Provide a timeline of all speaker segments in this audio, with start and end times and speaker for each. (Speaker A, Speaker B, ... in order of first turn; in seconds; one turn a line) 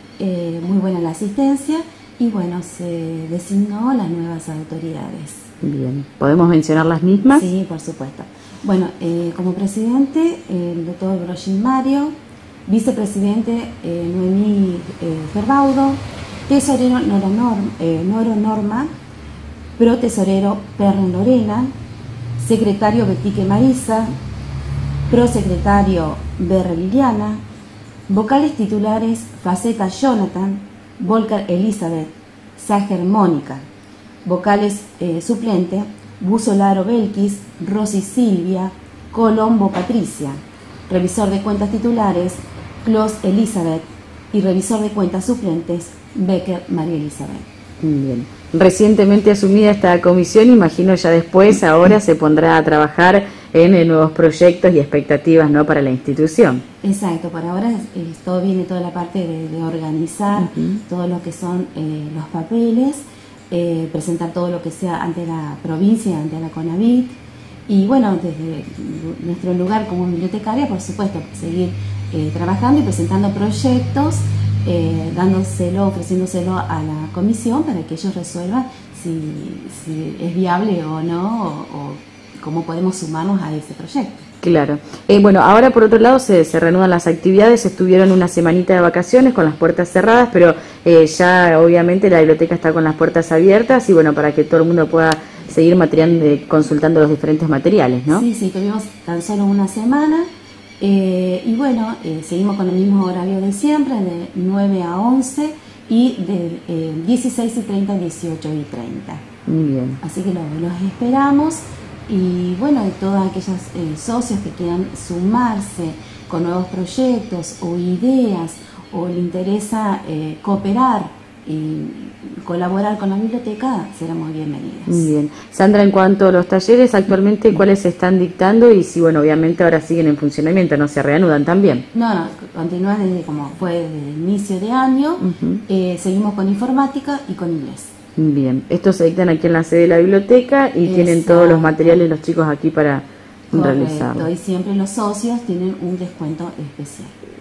Speaker A: 0.2-5.5
Speaker B: 5.6-7.5
Speaker A: 7.3-12.1
Speaker A: 12.7-18.9
Speaker A: 19.8-21.7
Speaker A: 22.4-24.1
Speaker A: 25.1-27.4
Speaker A: 28.1-33.7
Speaker A: 34.2-47.5
Speaker B: 47.8-56.6
Speaker A: 56.8-67.2
Speaker B: 60.4-60.8
Speaker A: 67.7-84.3
Speaker B: 84.4-98.2
Speaker A: 98.1-100.3
Speaker A: 100.8-109.2
Speaker B: 109.5-110.0
Speaker A: 110.0-125.1
Speaker B: 124.9-131.8
Speaker A: 131.9-137.9
Speaker B: 135.2-135.6
Speaker B: 138.2-144.3
Speaker A: 140.8-142.0
Speaker A: 143.5-147.1